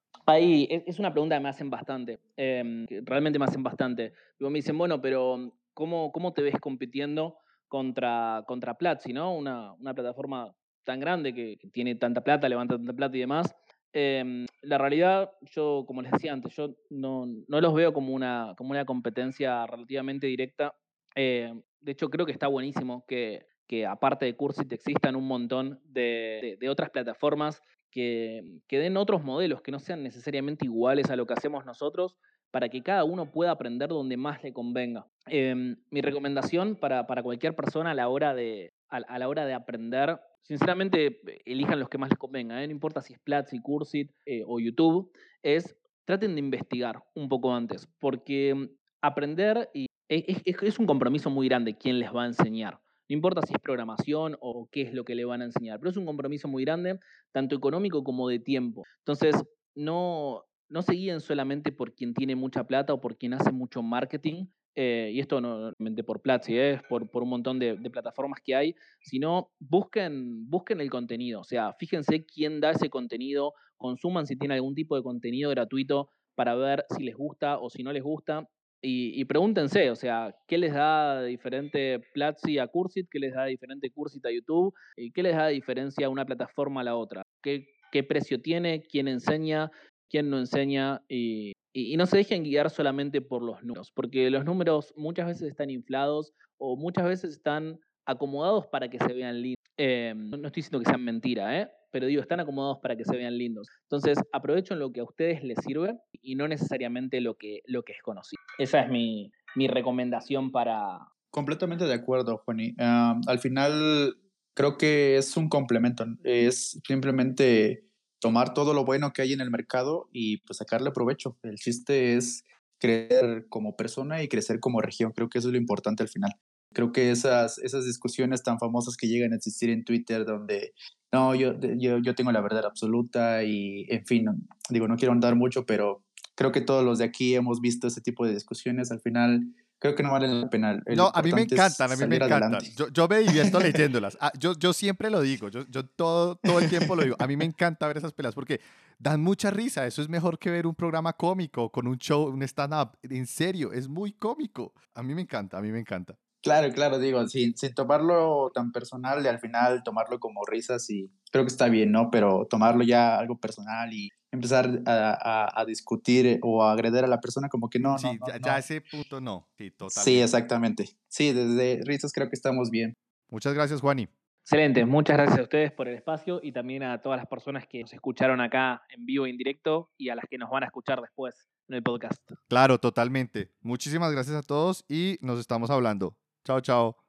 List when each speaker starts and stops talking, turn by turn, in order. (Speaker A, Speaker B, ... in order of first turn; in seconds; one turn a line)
Speaker A: 0.3-111.0
Speaker B: 111.3-142.7
Speaker C: 140.9-156.2
Speaker B: 143.3-143.7
Speaker B: 146.5-147.2
Speaker B: 156.4-168.7
Speaker C: 167.9-170.3
Speaker B: 169.9-172.9
Speaker C: 173.3-174.1
Speaker A: 174.4-182.4
Speaker C: 182.5-186.9